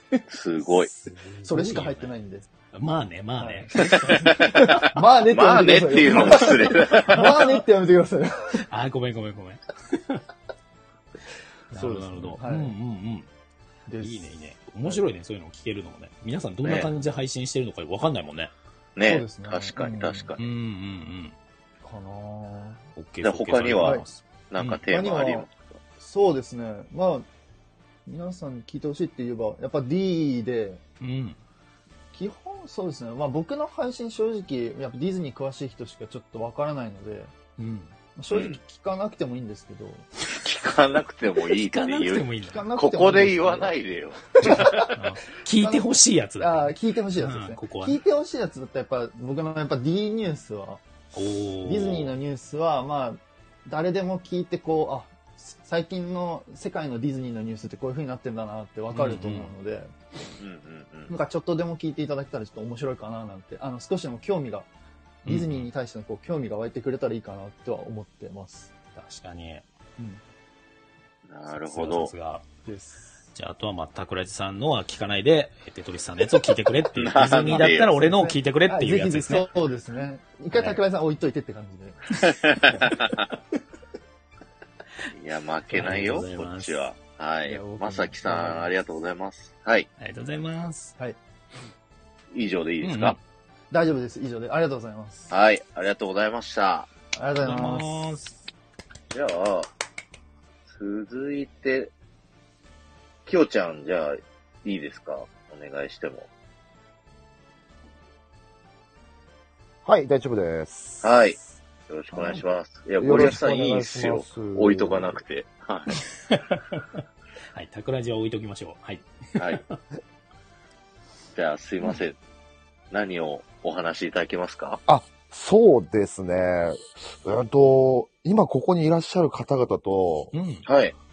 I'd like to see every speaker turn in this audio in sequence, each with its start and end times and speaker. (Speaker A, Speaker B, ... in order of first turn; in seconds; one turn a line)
Speaker A: 0.3-0.9
Speaker B: 1.0-2.1
Speaker C: 1.1-2.5
Speaker B: 2.7-4.6
Speaker C: 3.4-8.6
Speaker A: 3.8-7.3
Speaker B: 6.1-6.5
Speaker B: 8.7-10.2
Speaker B: 11.7-13.3
Speaker C: 11.7-12.7
Speaker C: 13.9-14.3
Speaker B: 14.0-18.5
Speaker A: 16.6-16.9
Speaker A: 18.9-20.4
Speaker C: 19.0-20.3
Speaker B: 20.4-21.3
Speaker C: 21.8-22.8
Speaker B: 22.9-24.8
Speaker A: 23.2-25.8
Speaker C: 24.9-25.5
Speaker C: 26.0-27.3
Speaker C: 28.1-30.8
Speaker B: 31.0-31.4
Speaker C: 32.1-37.3
Speaker B: 37.6-37.9
Speaker C: 38.1-40.0
Speaker A: 38.3-38.6
Speaker A: 40.3-44.9
Speaker B: 41.5-42.7
Speaker C: 42.4-43.7
Speaker C: 44.4-44.9
Speaker B: 44.9-48.0
Speaker C: 45.5-45.9
Speaker C: 46.4-50.8
Speaker B: 51.1-52.1
Speaker C: 51.6-59.9
Speaker B: 58.9-59.5
Speaker A: 60.4-61.1
Speaker C: 61.1-64.7
Speaker B: 65.2-65.7
Speaker C: 65.2-68.7
Speaker B: 69.0-69.6
Speaker A: 71.3-72.1
Speaker B: 71.5-72.4
Speaker C: 72.6-73.2
Speaker B: 73.3-79.5
Speaker A: 76.9-77.9
Speaker C: 77.4-82.0
Speaker B: 80.5-80.8
Speaker A: 82.2-83.2
Speaker A: 85.1-89.9
Speaker B: 85.7-86.8
Speaker C: 87.5-88.7
Speaker B: 90.0-90.9
Speaker A: 92.3-93.2
Speaker B: 92.8-93.2
Speaker C: 93.7-95.3
Speaker A: 95.3-96.9
Speaker C: 97.1-98.0
Speaker B: 97.4-98.3
Speaker A: 99.1-99.7
Speaker A: 100.7-101.9
Speaker A: 103.2-106.3
Speaker D: 109.8-111.3
Speaker A: 111.0-111.4
Speaker A: 111.9-116.0
Speaker D: 112.1-112.4
Speaker D: 113.0-115.2
Speaker B: 116.3-117.0
Speaker B: 117.5-119.7
Speaker A: 119.4-119.6
Speaker A: 121.3-122.2
Speaker A: 122.9-124.8
Speaker D: 124.9-130.3
Speaker B: 130.3-130.7
Speaker A: 130.7-130.9